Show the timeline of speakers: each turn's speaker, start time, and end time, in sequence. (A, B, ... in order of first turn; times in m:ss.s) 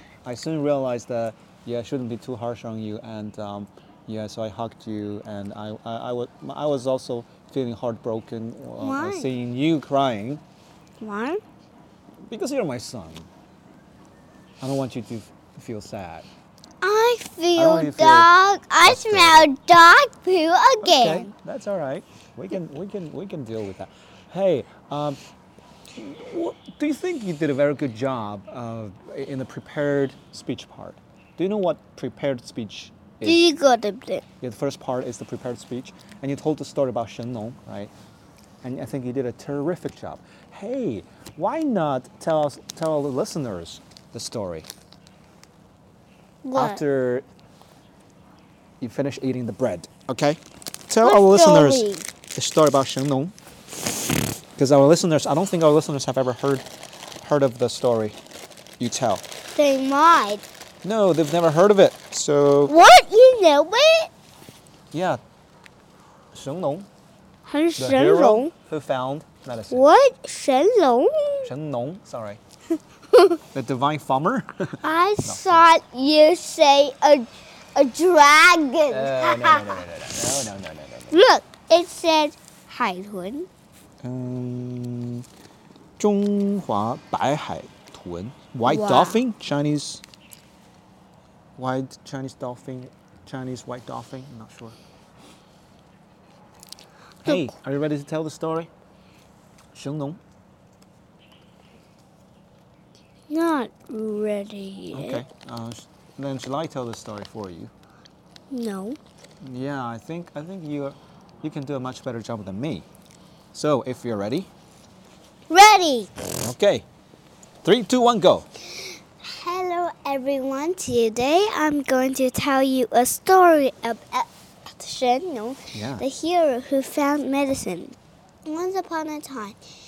0:00.2-0:10.4 A
0:08.8-0:09.3 B
0:11.0-0:11.4 B
0:12.3-0:13.3 A
0:14.6-0:16.3 A
0:16.8-0:21.3 B
0:17.6-0:18.3 A
0:18.8-0:19.5 A
0:20.8-0:25.2 A
0:25.9-0:33.4 A
0:33.2-0:34.2 B
0:34.4-0:37.9 A
0:38.6-0:44.7 A
0:46.4-0:46.8 B
0:46.5-0:47.2 A
0:48.8-0:53.3 A
0:51.0-0:52.1 B
0:54.6-0:56.6 A
0:57.2-0:58.2 A
0:58.8-0:59.2 A
0:59.5-1:00.4 B
1:00.8-1:02.7 A
1:02.7-1:04.1 B
1:04.9-1:05.2 A
1:06.3-1:06.9 A
1:07.4-1:08.5 B
1:07.8-1:09.9 A
1:09.7-1:11.5 B
1:11.4-1:12.4 A
1:13.1-1:13.4 B
1:13.5-1:15.6 A
1:14.8-1:19.8 B
1:18.9-1:21.2 A
1:21.1-1:23.5 B
1:24.0-1:25.2 A
1:26.0-1:30.0 A
1:28.6-1:29.2 B
1:31.6-1:34.8 A
1:37.2-1:38.7 A
1:37.2-1:37.5 B
1:39.7-1:40.2 A
1:43.3-1:45.2 B
1:44.9-1:47.7 A
1:48.5-1:49.0 B
1:49.4-1:52.8 A
1:53.5-1:54.5 A
1:55.5-1:56.1 B
1:56.4-1:56.8 A
1:57.6-1:58.5 A
1:58.8-2:09.6 B
2:05.7-2:06.0 A